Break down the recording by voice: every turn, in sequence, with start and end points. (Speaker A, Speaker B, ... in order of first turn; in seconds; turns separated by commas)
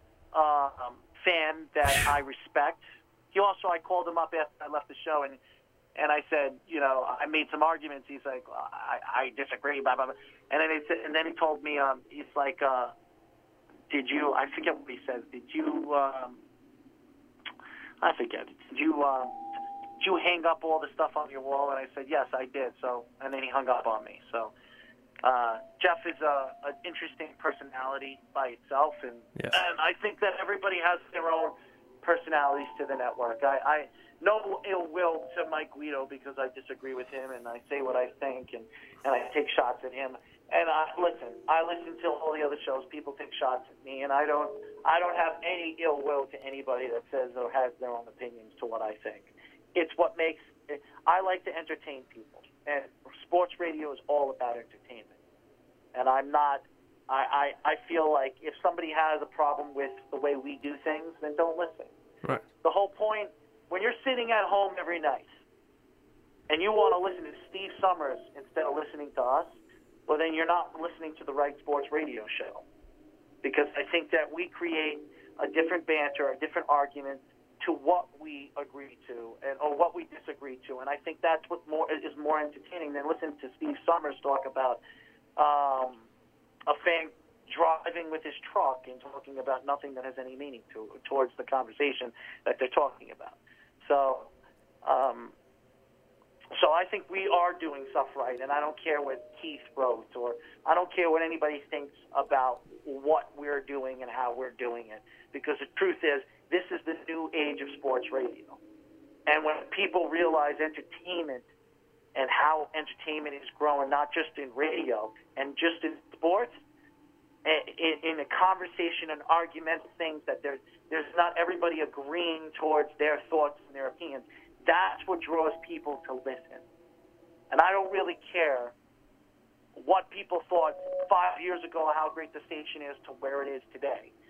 Speaker A: 0.3-5.4, Speaker A: 5.9-12.9, Speaker A: 13.9-16.4, Speaker A: 18.0-19.4, Speaker A: 20.0-24.5, Speaker A: 25.2-55.1, Speaker A: 55.9-61.9, Speaker A: 62.6-65.3, Speaker A: 66.5-72.6, Speaker A: 73.4-84.8, Speaker A: 85.4-86.1, Speaker A: 86.7-94.3, Speaker A: 94.8-95.3, Speaker A: 96.5-108.6, Speaker A: 109.2-111.4, Speaker A: 112.1-116.5, Speaker A: 117.4-126.6, Speaker A: 127.5-128.7, Speaker A: 129.7-134.1